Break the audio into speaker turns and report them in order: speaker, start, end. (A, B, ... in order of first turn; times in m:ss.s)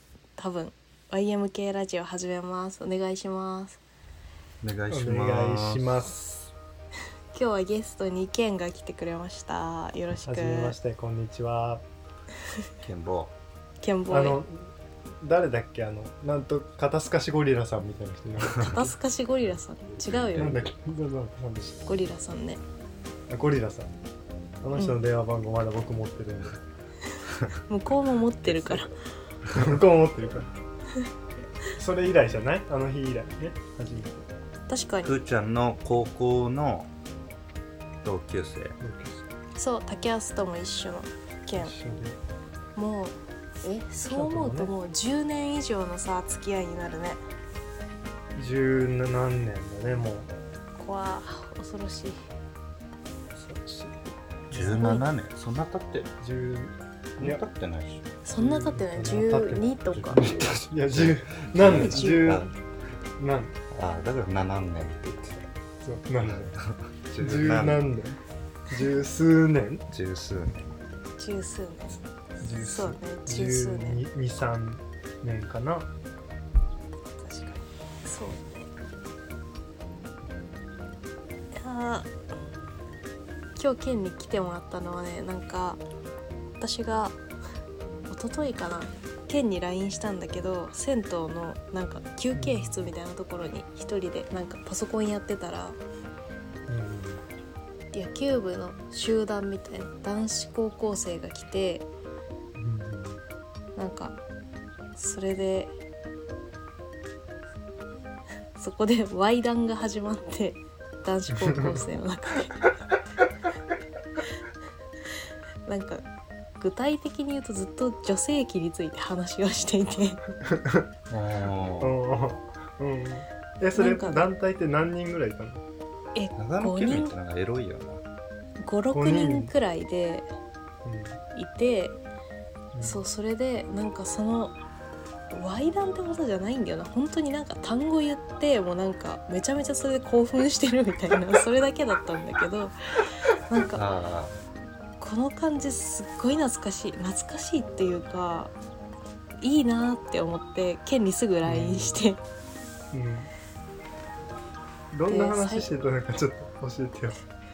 0:00.4-0:03.8 A
0:04.6-0:06.1 B
0:04.9-0:06.5 C
0:07.3-0:10.7 A
0:10.2-0:11.8 C
0:12.8-0:13.3 B
0:13.8-0:14.4 A
0:14.1-0:14.7 C
0:15.2-0:18.9 C
0:18.6-0:20.5 A
0:20.0-0:20.7 B
0:20.3-0:21.9 C
0:21.9-0:22.6 A
0:23.3-0:23.9 C
0:24.6-0:26.6 C
0:27.5-0:28.9 A
0:29.5-0:30.5 C
0:31.8-0:34.3 C
0:34.7-0:35.1 A
0:35.0-0:36.9 B
0:38.0-0:38.7 B
0:38.8-0:39.3 C
0:39.5-0:41.7 A
0:41.6-0:42.2 C
0:42.8-0:47.2 A
0:44.0-0:44.7 C
0:48.4-0:50.3 C
0:50.8-0:52.2 A
0:53.3-0:53.9 C
0:54.5-0:56.1 B
0:54.5-0:55.0 A
0:56.2-0:57.4 C
0:57.2-0:58.0 B
0:58.2-1:00.2 A
0:58.3-1:02.5 C
1:00.0-1:02.5 B
1:01.7-1:02.5 A
1:03.2-1:03.5 C
1:03.7-1:05.4 B
1:05.8-1:06.5 C
1:06.2-1:07.9 B
1:07.2-1:08.2 C
1:08.7-1:09.8 C
1:09.9-1:10.6 B
1:11.2-1:12.0 A
1:12.4-1:15.9 C
1:12.6-1:14.0 A
1:17.2-1:18.7 A
1:21.5-1:22.1 A
1:23.6-1:25.8 A
1:26.6-1:27.2 A
1:28.1-1:35.8 A
1:32.3-1:32.9 C
1:36.7-1:37.2 C
1:37.9-1:41.9 A
1:42.6-1:43.2 C
1:43.8-1:44.2 A
1:45.0-1:45.7 A
1:48.6-1:52.6 A
1:51.4-1:51.8 C
1:55.6-1:56.0 A
1:56.6-2:00.2 A
2:00.4-2:00.9 C
2:01.1-2:02.0 B
2:01.8-2:05.6 C
2:03.7-2:04.3 A
2:06.1-2:07.1 A
2:06.4-2:08.0 B
2:08.6-2:10.3 A
2:08.9-2:09.5 C
2:10.8-2:11.2 C
2:11.3-2:12.0 A
2:12.7-2:13.0 C
2:12.8-2:14.5 A
2:15.3-2:22.7 A
2:23.3-2:23.8 A
2:23.7-2:24.3 B
2:25.0-2:28.5 A
2:29.4-2:32.2 A
2:31.4-2:32.0 C
2:32.9-2:33.3 C
2:34.9-2:37.2 C
2:35.1-2:35.7 A